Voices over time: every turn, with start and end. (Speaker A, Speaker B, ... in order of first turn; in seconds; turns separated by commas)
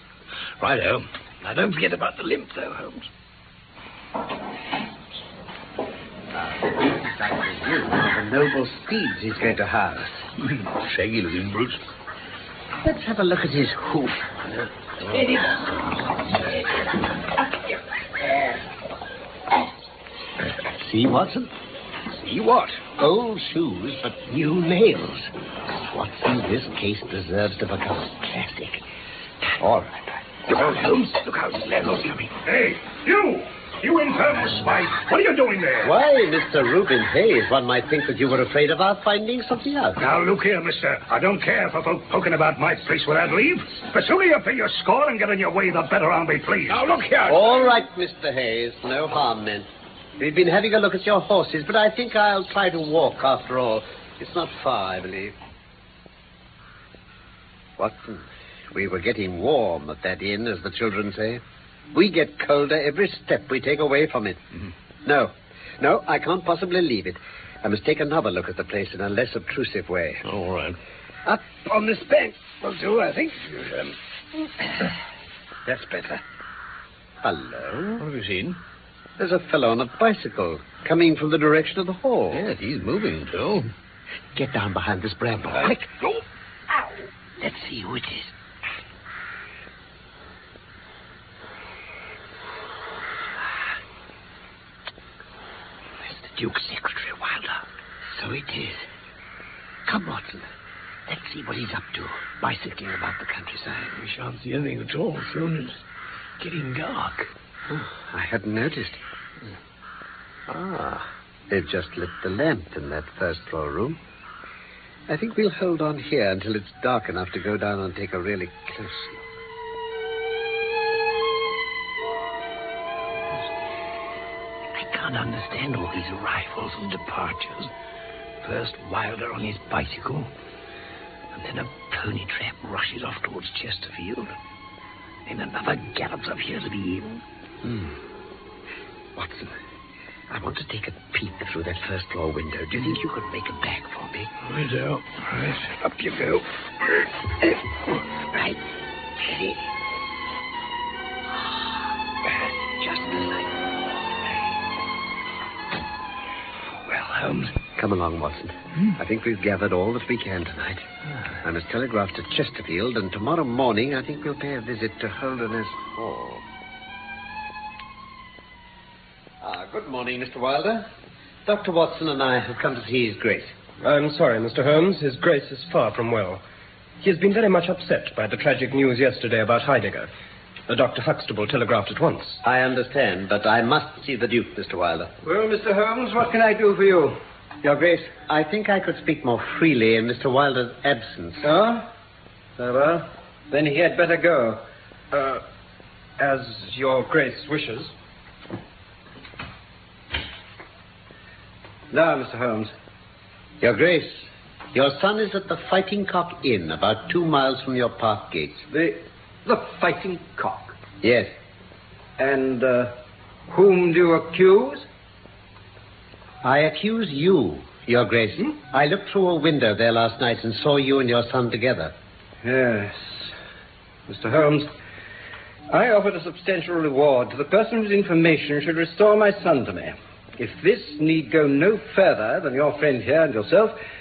Speaker A: 0.6-3.1, Speaker B: 6.3-10.3, Speaker A: 10.8-11.8, Speaker B: 12.8-14.3, Speaker B: 20.7-21.5, Speaker A: 22.2-22.9, Speaker B: 22.9-28.8, Speaker B: 29.6-29.9, Speaker A: 30.5-32.3, Speaker C: 32.5-35.9, Speaker B: 35.8-40.0, Speaker C: 40.0-47.0, Speaker A: 46.7-47.6, Speaker B: 47.3-49.7, Speaker B: 50.2-55.3, Speaker B: 57.8-61.4, Speaker B: 61.9-64.4, Speaker B: 65.0-70.2, Speaker A: 70.3-70.8, Speaker B: 71.3-73.9, Speaker B: 75.7-76.2, Speaker B: 77.2-78.0, Speaker A: 78.0-78.6, Speaker B: 79.2-82.5, Speaker A: 82.3-83.7, Speaker B: 84.3-85.9, Speaker B: 87.4-88.3, Speaker B: 96.0-97.5, Speaker B: 98.0-98.9, Speaker B: 99.9-100.5, Speaker B: 101.1-104.0, Speaker A: 104.0-105.8, Speaker A: 106.4-107.3, Speaker B: 107.7-109.0, Speaker B: 110.5-114.0, Speaker B: 115.1-119.2, Speaker A: 124.8-127.7, Speaker A: 128.4-130.3, Speaker A: 131.3-134.3, Speaker A: 135.3-137.2, Speaker B: 137.6-137.9, Speaker B: 139.2-139.5, Speaker B: 140.3-144.3, Speaker A: 144.4-146.4, Speaker B: 148.3-148.6, Speaker B: 149.2-149.6, Speaker B: 152.8-153.4, Speaker A: 156.9-157.6, Speaker B: 157.6-160.8, Speaker B: 161.4-166.4, Speaker B: 169.4-170.9, Speaker B: 171.4-173.5, Speaker D: 173.8-176.4, Speaker D: 177.0-180.1, Speaker D: 180.7-182.4, Speaker B: 182.4-185.1, Speaker E: 185.2-187.2, Speaker B: 187.6-191.5, Speaker E: 191.4-191.9, Speaker E: 192.6-194.6, Speaker D: 195.1-195.4, Speaker D: 196.2-197.9, Speaker E: 201.9-202.7, Speaker B: 203.6-208.7, Speaker E: 208.7-210.8, Speaker B: 211.0-211.3, Speaker E: 212.2-212.9, Speaker E: 213.5-214.9, Speaker B: 216.4-221.9, Speaker E: 222.4-223.3, Speaker E: 224.1-224.7, Speaker E: 225.7-233.8